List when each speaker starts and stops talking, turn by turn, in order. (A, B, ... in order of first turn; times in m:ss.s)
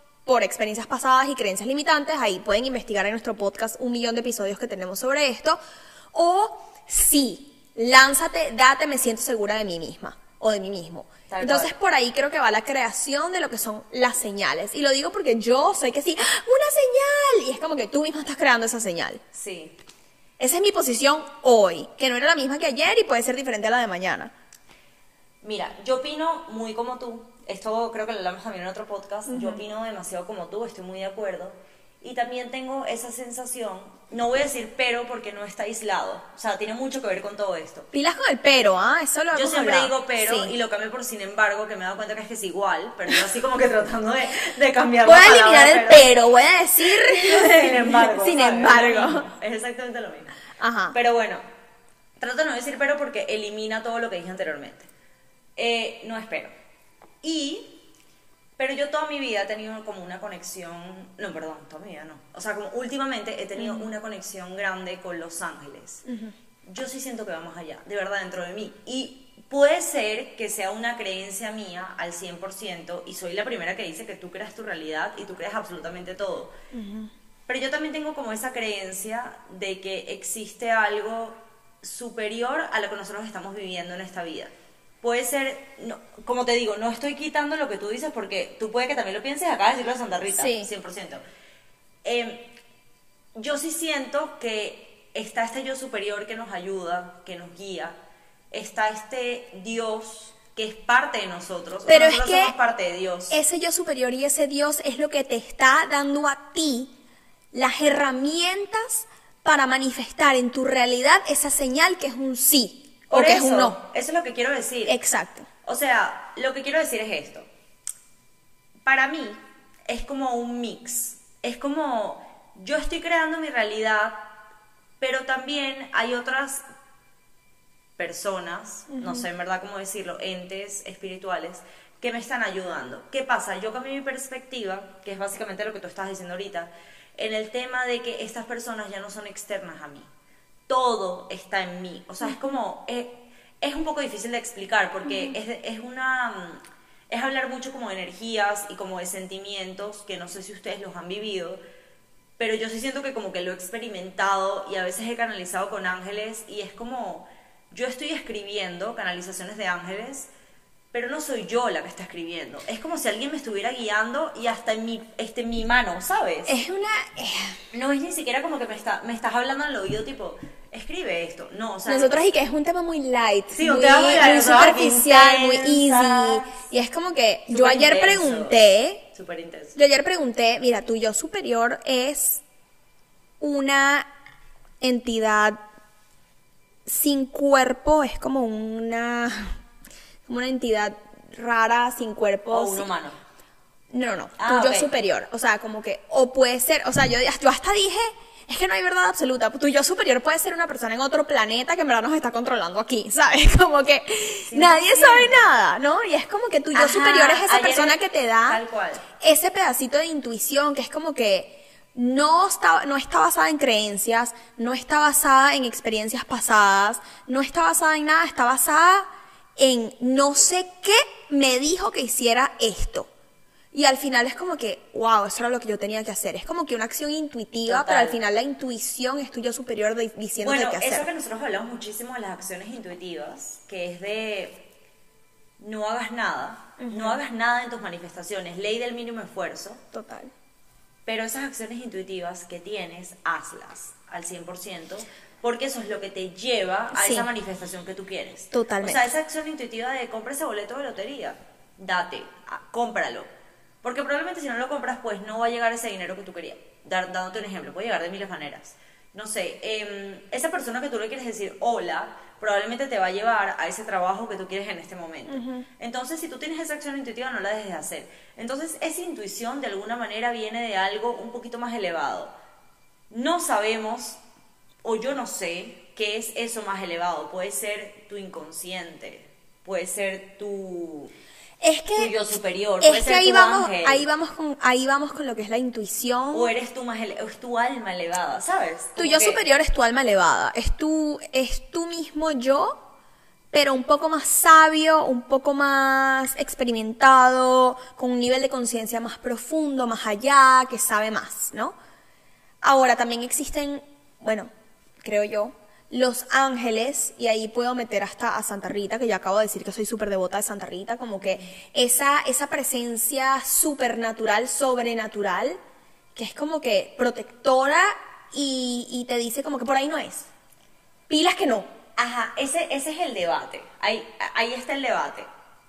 0:00.2-0:05.6 A
0:06.1-0:19.2 A
0:11.3-0:11.7 B
0:19.3-0:19.8 B
0:20.4-0:24.3 A
0:25.4-0:37.9 B
0:29.3-0:29.6 A
0:37.9-0:40.5 A
0:39.3-0:46.2 B
0:45.0-0:49.3 A
0:46.8-0:50.4 B
0:50.6-0:51.0 A
0:50.9-0:51.4 B
0:52.2-0:54.9 B
0:55.6-0:56.5 B
0:57.2-0:57.8 B
0:58.6-1:06.0 B
1:03.6-1:03.9 A
1:06.1-1:06.3 A
1:06.6-1:16.5 B
1:16.7-1:17.1 A
1:17.5-1:24.5 B
1:25.0-1:31.2 B
1:30.3-1:30.7 A
1:32.0-1:32.5 B
1:33.4-1:38.0 B
1:38.5-1:43.4 B
1:41.8-1:42.5 A
1:43.3-1:46.9 A
1:47.5-1:53.8 A
1:53.1-1:55.0 B
1:54.8-1:55.5 A
1:55.6-1:57.5 B
1:58.8-2:04.3 B
2:05.0-2:06.6 B
2:08.0-2:20.1 B
2:08.9-2:09.2 A
2:20.7-2:31.6 B
2:32.4-2:40.3 B
2:40.9-2:46.6 B
2:46.4-2:47.6 A
2:47.7-2:52.2 B
2:51.9-2:59.1 A
2:53.5-2:56.6 B
2:57.5-2:58.6 B
2:59.1-2:59.8 B
2:59.8-3:02.4 A
3:03.4-3:04.1 A
3:04.8-3:05.6 A
3:06.8-3:09.6 A
3:10.2-3:12.9 A
3:12.5-3:13.2 B
3:13.9-3:28.6 A
3:14.4-3:14.9 B
3:24.4-3:25.5 B
3:26.7-3:29.0 B
3:29.2-3:43.1 A
3:43.7-3:51.1 A
3:47.6-3:48.2 B
3:50.4-3:54.6 B
3:55.6-3:59.8 B
3:56.8-3:57.2 A
3:59.9-4:00.3 A
4:01.0-4:13.3 B
4:06.9-4:07.3 A
4:08.5-4:09.1 A
4:13.8-4:32.3 B
4:25.3-4:25.6 A
4:33.1-4:34.2 B
4:34.8-4:41.1 B
4:41.6-4:42.1 A
4:42.0-4:44.0 B
4:42.8-4:46.5 A
4:46.3-4:49.4 B
4:49.0-4:52.8 A
4:53.5-5:01.7 A
5:02.6-5:04.5 A
5:05.0-5:15.6 A
5:16.1-5:20.3 A
5:21.1-5:21.7 A
5:22.0-5:25.3 B